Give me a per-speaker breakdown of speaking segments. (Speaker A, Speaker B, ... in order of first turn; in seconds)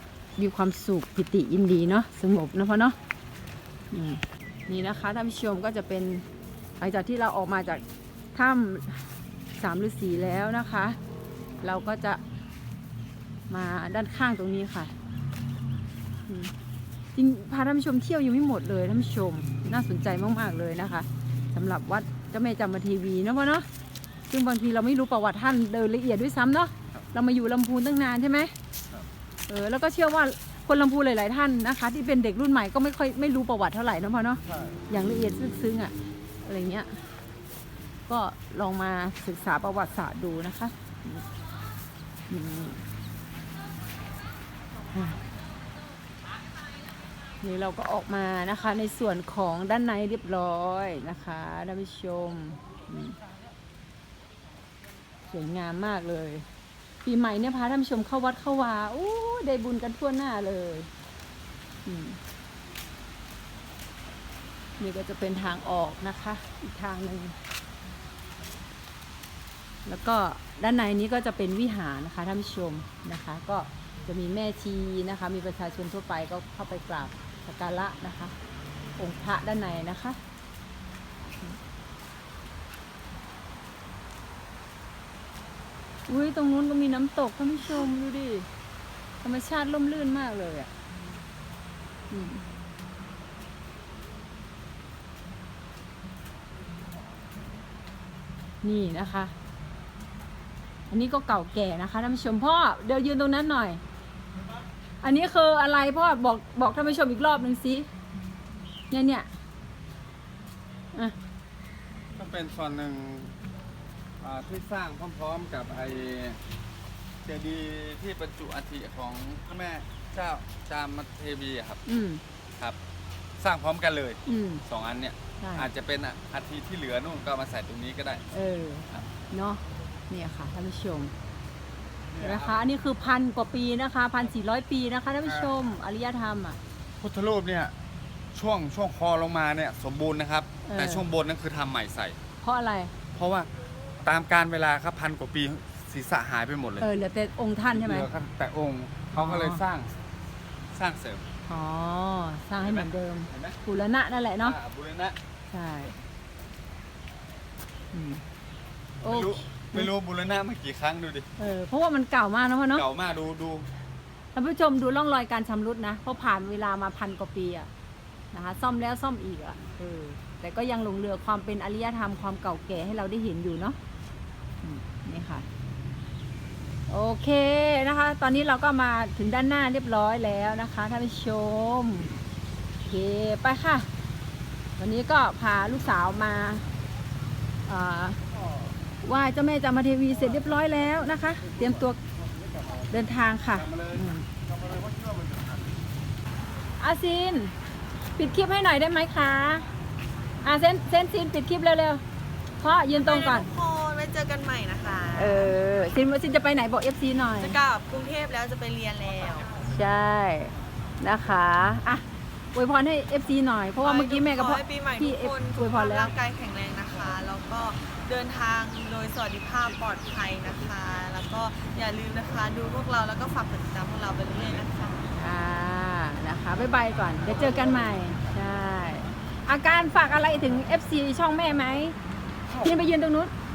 Speaker A: 0.4-3.0, 3.9-6.3, 6.8-7.8, 8.3-11.0, 11.6-12.2, 13.5-14.9, 16.3-16.5, 17.1-23.7, 24.3-28.6, 29.5-37.1, 38.1-41.3, 42.3-42.8, 44.9-45.2, 47.4-53.2, 55.3-56.5, 57.0-60.9, 61.9-62.2, 64.8-67.4, 69.8-78.3, 79.0-80.2, 86.1-88.5, 89.2-90.7, 92.1-92.5, 98.6-99.3, 100.9-103.8, 105.0-107.9, 108.9-109.3, 121.9-122.2, 124.3-124.6, 125.4-125.7, 128.3-131.1, 132.2-136.6, 140.7-141.1, 142.4-142.9, 146.8-148.1, 149.1-149.6, 151.5-154.6, 155.5-156.0, 157.9-158.2, 159.0-159.9, 161.4-162.9, 164.3-167.7, 168.3-173.8, 174.6-175.5, 176.9-182.1, 182.9-183.9, 184.8-186.7, 187.7-188.2, 189.0-192.0, 192.9-194.3, 196.8-197.6, 198.2-199.7, 200.4-202.0, 202.6-203.5, 205.2-207.6, 209.6-216.1, 225.2-232.0, 232.6-233.3
Speaker B: 34.5-34.8, 112.2-113.3, 114.2-116.4, 117.2-121.8, 123.4-128.2, 132.1-132.6, 137.0-137.7, 138.3-142.2, 143.1-143.5, 144.0-146.9, 147.7-149.9, 150.7-151.2, 152.6-153.6, 154.4-155.2, 159.0-161.3, 162.7-163.7, 194.9-195.4, 232.5-232.8
Speaker C: 202.9-205.5, 207.4-209.5, 213.8-225.0